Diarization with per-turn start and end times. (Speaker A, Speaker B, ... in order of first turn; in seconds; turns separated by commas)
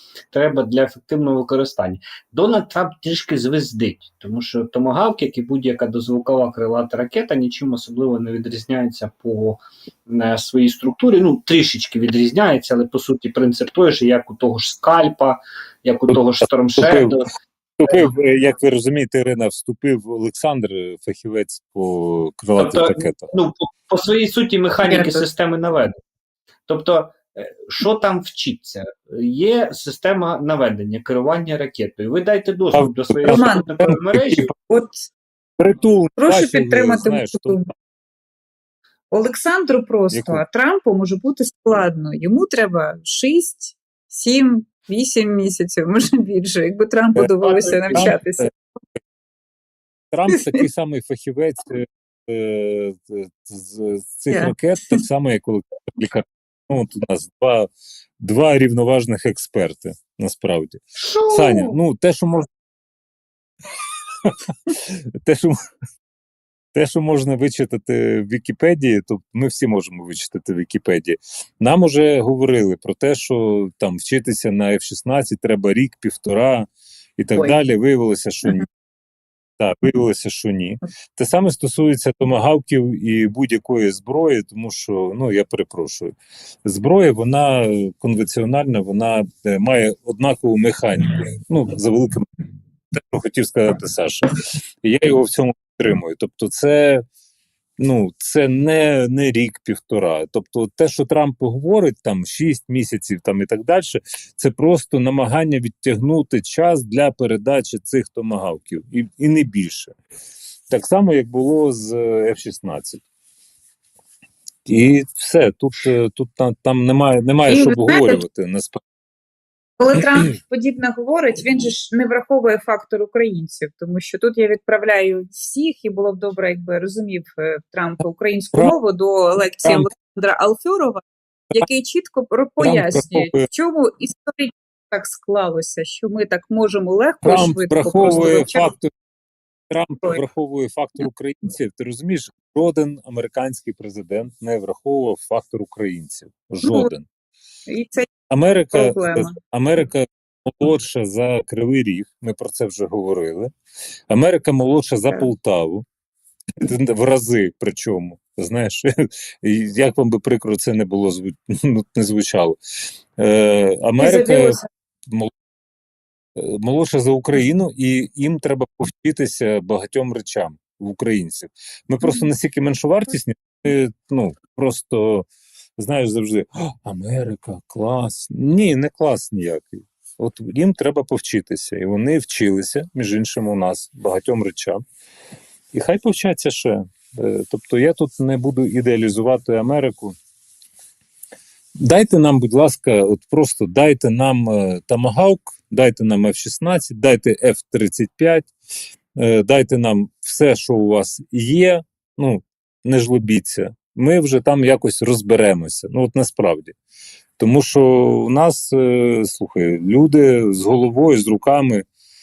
Speaker A: 0.3-17.3, Speaker B: 16.1-17.1, Speaker B: 17.8-23.3, Speaker A: 22.6-25.9, Speaker C: 24.8-25.2, Speaker A: 26.7-34.5, Speaker B: 32.7-34.5, Speaker C: 33.2-33.6, Speaker C: 34.7-35.0, Speaker B: 35.6-37.6, Speaker C: 36.2-37.7, Speaker C: 39.1-48.5, Speaker B: 40.1-40.4, Speaker A: 47.2-48.1, Speaker B: 47.9-48.5, Speaker B: 50.1-57.7, Speaker C: 54.3-55.0, Speaker B: 58.2-62.5, Speaker A: 61.0-61.8, Speaker B: 64.2-65.5, Speaker B: 66.7-78.7, Speaker B: 79.6-92.2, Speaker B: 93.0-97.0, Speaker B: 97.8-109.9, Speaker B: 110.7-113.0, Speaker B: 114.7-118.8, Speaker C: 117.5-118.2, Speaker C: 119.8-138.7, Speaker B: 132.6-133.5, Speaker B: 137.2-138.9, Speaker B: 139.7-147.1, Speaker C: 146.6-146.9, Speaker C: 147.7-148.1, Speaker B: 148.3-153.5, Speaker C: 148.7-149.3, Speaker B: 154.1-155.8, Speaker B: 156.6-162.6, Speaker B: 163.2-165.3, Speaker C: 164.0-164.7, Speaker B: 166.4-184.8, Speaker B: 185.7-190.2, Speaker B: 191.8-198.5, Speaker B: 199.2-206.7, Speaker B: 207.4-211.8